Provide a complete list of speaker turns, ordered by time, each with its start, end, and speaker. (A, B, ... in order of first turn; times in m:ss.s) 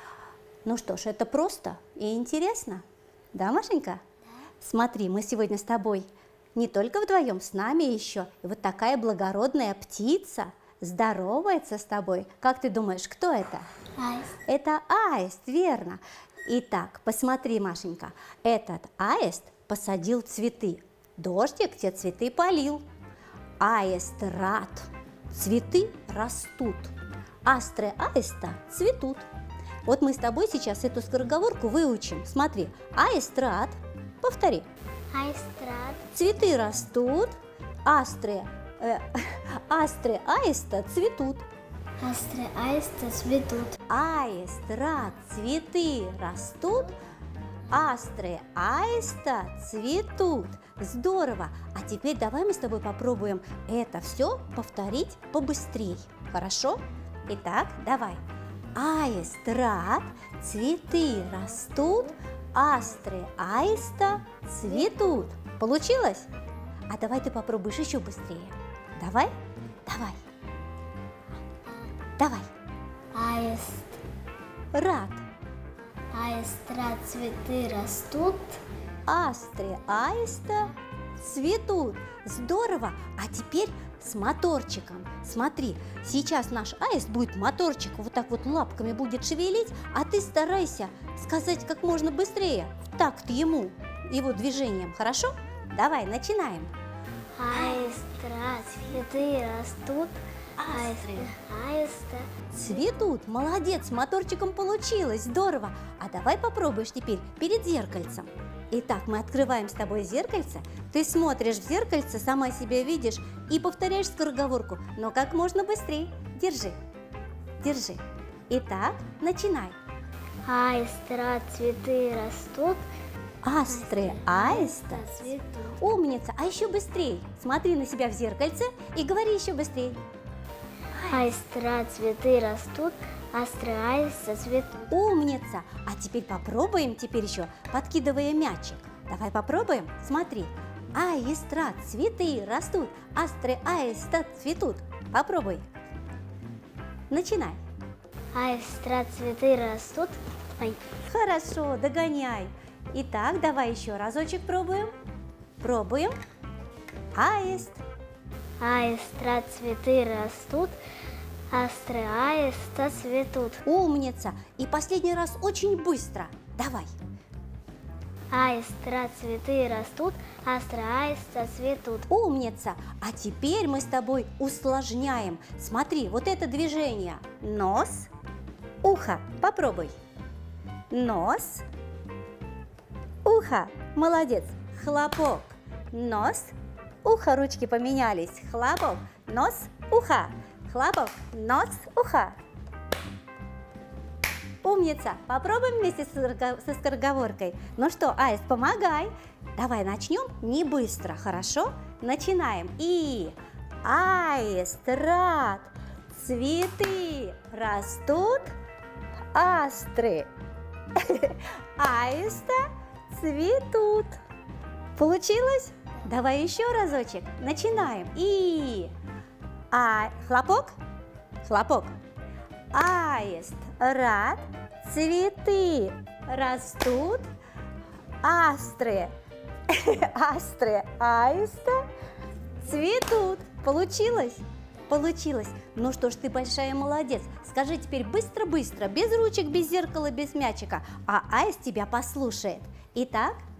0:00.6-0:02.8 A
0:03.3-0:04.0 A
0:04.6-0:13.6 A
0:14.0-0:14.3 B
0:14.4-0:22.8 A
0:23.6-0:26.9 A
0:27.4-0:29.2 A
0:29.8-0:34.7 A
0:35.1-0:36.0 B
0:36.1-0:37.3 A
0:37.8-0:41.4 A
0:42.0-0:43.8 B
0:43.9-0:46.9 A
0:47.7-0:58.2 A
0:58.7-1:06.3 A
1:06.9-1:09.3 A
1:09.8-1:10.2 A
1:12.2-1:12.5 A
1:13.1-1:14.0 B
1:14.7-1:15.2 A
1:16.1-1:18.6 B
1:19.0-1:36.7 A
1:37.4-1:42.4 B
1:37.5-1:37.9 A
1:40.6-1:41.3 A
1:42.5-1:56.8 A
1:57.6-1:59.8 A
2:00.4-2:02.8 B
2:03.4-2:10.0 A
2:03.7-2:05.8 B
2:10.9-2:11.3 A
2:11.0-2:14.9 B
2:14.9-2:25.7 A
2:27.1-2:27.6 A
2:28.3-2:30.8 B
2:31.0-2:34.9 A
2:35.6-2:36.2 A
2:37.1-2:37.8 A
2:38.6-2:40.8 B
2:41.5-2:43.6 B
2:43.6-2:46.9 A
2:48.3-2:52.1 B
2:52.1-2:58.1 A
2:58.8-2:59.9 A
3:00.9-3:01.6 A
3:03.2-3:12.4 A
3:14.6-3:28.5 A
3:29.3-3:30.3 A
3:31.0-3:34.2 A
3:35.0-3:38.9 A
3:39.7-3:40.8 A
3:41.4-3:42.0 A
3:42.7-3:47.2 A
3:48.2-3:49.1 A
3:49.7-3:51.8 A
3:52.6-4:03.4 A